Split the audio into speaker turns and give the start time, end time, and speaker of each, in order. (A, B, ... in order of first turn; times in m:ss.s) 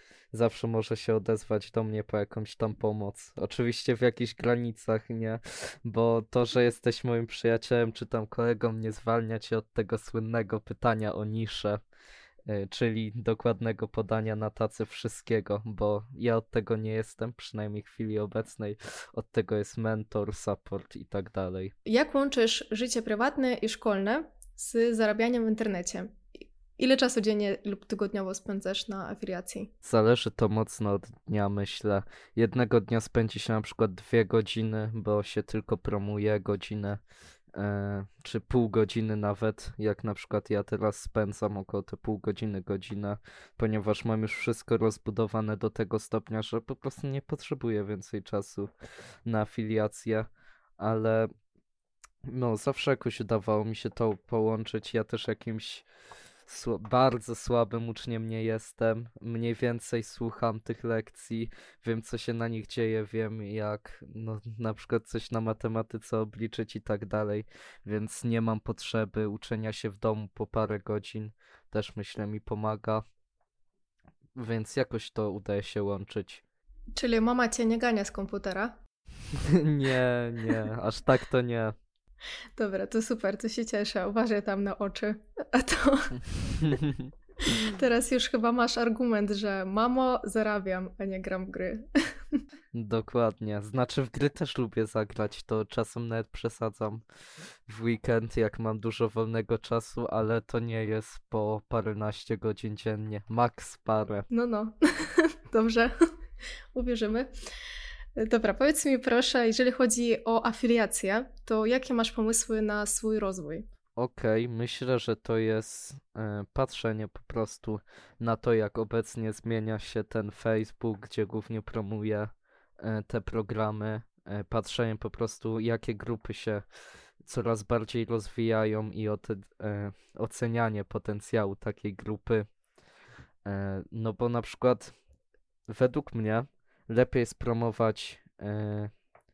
0:00.3-0:11.8 A
0:12.5-0:21.7 A
0:21.9-0:26.1 B
0:26.8-0:29.7 B
0:29.8-0:37.0 A
0:37.5-0:48.7 A
0:49.2-0:50.3 A
0:50.8-0:51.3 A
0:52.2-0:55.9 A
0:56.5-1:13.0 A
1:14.4-1:16.4 A
1:16.9-1:18.8 B
1:19.5-1:21.8 A
1:22.6-1:26.8 B
1:26.6-1:27.1 A
1:27.4-1:32.4 B
1:32.7-1:37.0 A
1:37.7-1:44.3 A
1:44.3-1:45.9 B
1:46.7-1:47.3 B
1:48.2-1:53.6 B
1:54.0-2:02.3 A
2:02.8-2:06.6 A
2:07.2-2:12.4 A
2:13.4-2:14.9 A
2:15.7-2:18.9 A